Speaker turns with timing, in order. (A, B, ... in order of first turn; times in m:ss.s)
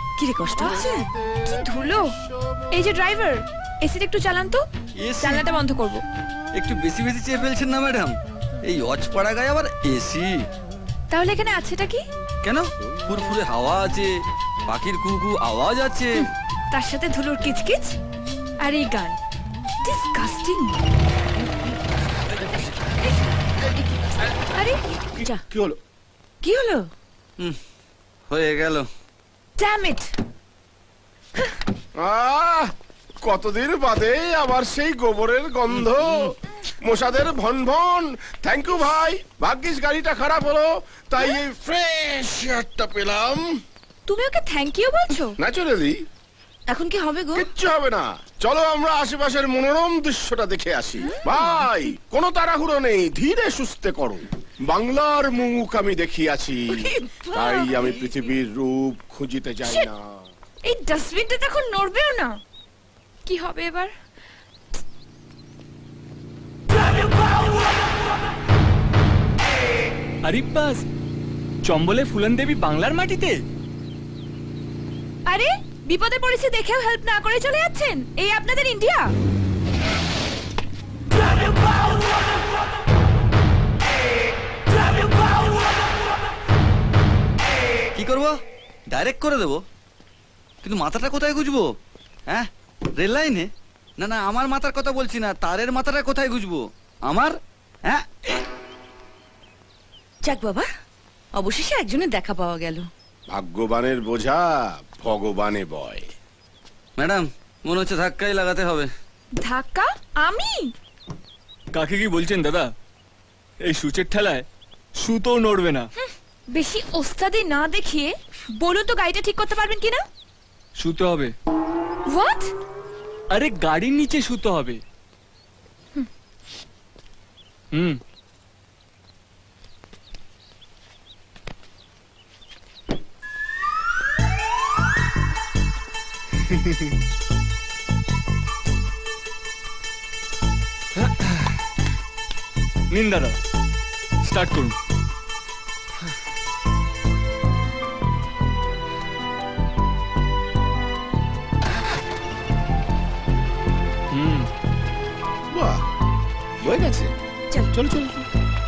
0:00.2-0:01.1 A
0:00.5-0:02.7 B
0:00.6-0:00.9 C
0:01.4-0:02.1 C
0:02.7-0:04.6 C
0:05.0-0:05.5 D
0:05.2-0:06.0 C
0:06.6-0:10.4 D
0:11.1-0:12.0 C
0:12.4-0:16.3 D
0:16.2-0:18.0 C
0:18.6-0:19.2 C
0:19.8-0:20.8 C
0:24.5-0:24.8 C
0:25.2-0:25.8 B
0:26.4-0:26.8 A
0:28.3-0:28.9 D
0:29.6-0:30.1 C
0:32.0-0:32.7 B
0:33.2-0:43.6 B
0:44.1-0:45.4 C
0:45.4-0:46.0 B
0:46.7-0:47.5 A
0:47.3-1:00.3 B
0:56.9-0:58.1 A
0:59.6-0:59.9 C
1:00.6-1:02.4 C
1:03.2-1:03.9 C
1:10.2-1:10.8 E
1:11.6-1:13.4 E
1:15.3-1:19.1 C
1:28.0-1:28.3 D
1:28.9-1:29.6 D
1:30.6-1:31.7 D
1:32.3-1:38.0 D
1:40.2-1:40.7 A
1:41.3-1:42.9 A
1:43.3-1:46.1 B
1:47.0-1:48.9 D
1:49.4-1:50.7 C
1:51.7-1:52.7 E
1:53.6-1:54.4 E
1:55.0-1:55.9 E
1:56.5-2:00.0 C
2:00.8-2:01.3 E
2:02.1-2:02.5 C
2:03.3-2:04.8 E
2:07.7-2:08.0 E
2:21.0-2:21.5 E
2:22.9-2:23.4 E
2:24.2-2:24.8 E
2:34.1-2:34.5 E
2:35.5-2:35.8 B
2:36.6-2:37.2 B
2:37.7-2:38.2 B